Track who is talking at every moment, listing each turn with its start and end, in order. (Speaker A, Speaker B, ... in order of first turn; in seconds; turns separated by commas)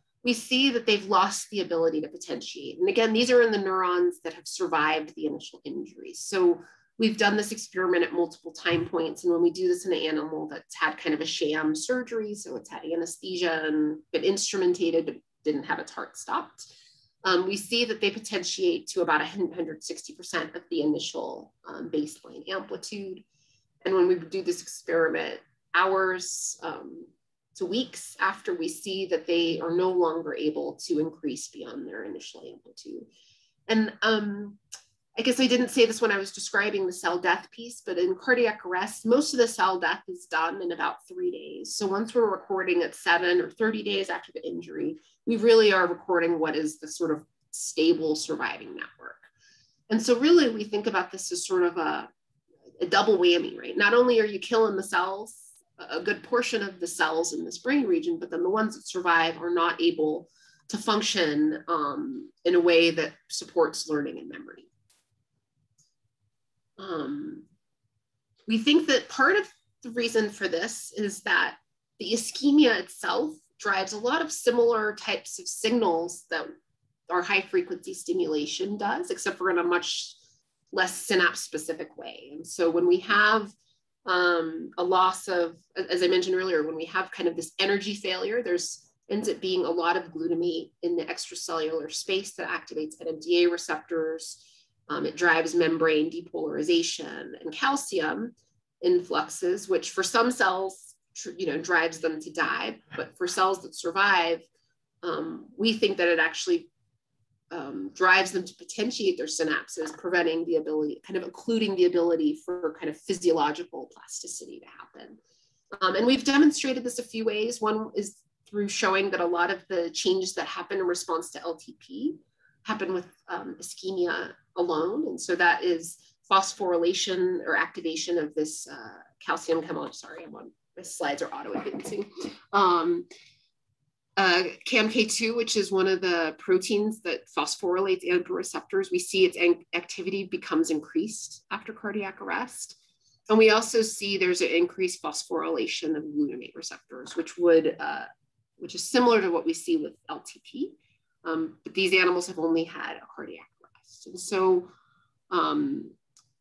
Speaker A: 0.2-16.7, Speaker A: 17.2-23.2, Speaker A: 23.8-33.1, Speaker A: 33.7-34.6, Speaker A: 35.2-49.3, Speaker A: 49.9-52.1, Speaker A: 52.8-64.7, Speaker A: 66.8-67.5, Speaker A: 68.5-76.5, Speaker A: 77.1-80.2, Speaker A: 80.7-83.5, Speaker A: 84.1-104.5, Speaker A: 105.0-106.7, Speaker A: 107.5-115.2, Speaker A: 115.8-133.1, Speaker A: 134.2-142.8, Speaker A: 143.3-148.1, Speaker A: 148.6-154.7, Speaker A: 155.3-155.9